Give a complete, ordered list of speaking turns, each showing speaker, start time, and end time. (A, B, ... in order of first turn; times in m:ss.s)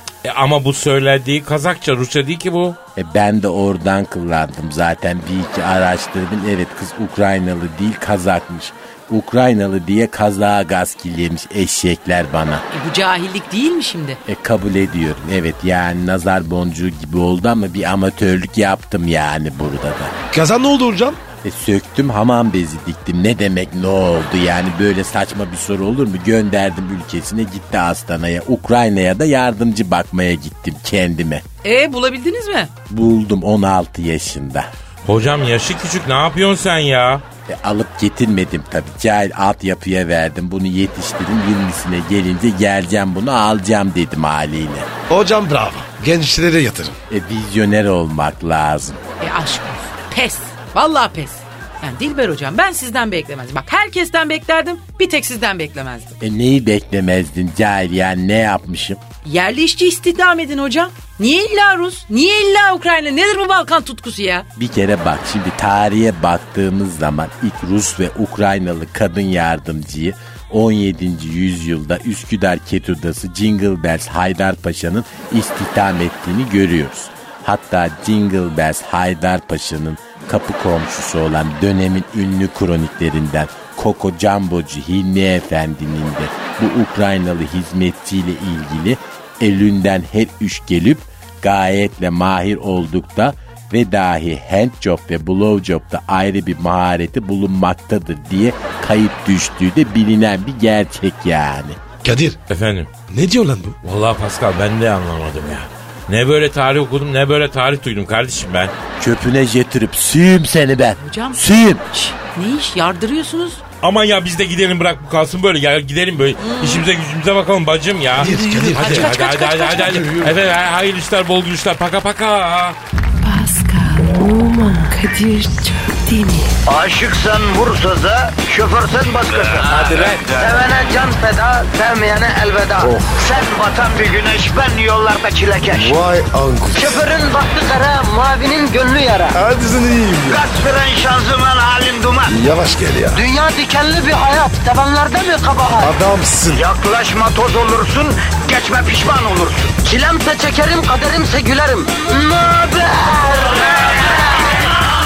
0:00.2-0:02.8 A
0:03.0-0:12.6 B
0:12.7-0:14.2 C
0:14.3-0:20.2 B
0:20.3-0:21.2 D
0:21.4-0:31.4 B
0:31.6-0:32.7 C
0:32.9-0:34.7 B
0:35.0-0:37.2 A
0:37.5-0:44.9 B
0:45.1-0:47.0 D
0:47.1-0:49.0 B
0:49.2-0:56.2 C
0:56.2-0:59.0 B
0:59.2-1:04.5 C
1:04.6-1:41.8 B
1:42.0-1:42.4 D
1:42.5-1:42.9 A
1:43.1-1:43.8 D
1:43.8-1:48.7 A
1:49.0-1:51.8 B
1:51.0-1:53.6 C
1:53.8-2:02.8 A
1:56.4-1:56.9 C
1:58.2-1:59.2 D
1:58.2-2:00.1 C
1:59.7-2:00.3 D
2:03.2-2:06.6 E
2:06.7-2:16.0 F
2:09.7-2:10.4 A
2:12.8-2:13.3 D
2:15.7-2:17.0 D
2:16.7-2:19.4 F
2:19.3-2:20.4 D
2:20.3-2:22.4 F
2:22.3-2:23.2 D
2:23.1-2:26.0 F
2:25.8-2:26.7 D
2:26.5-2:34.4 F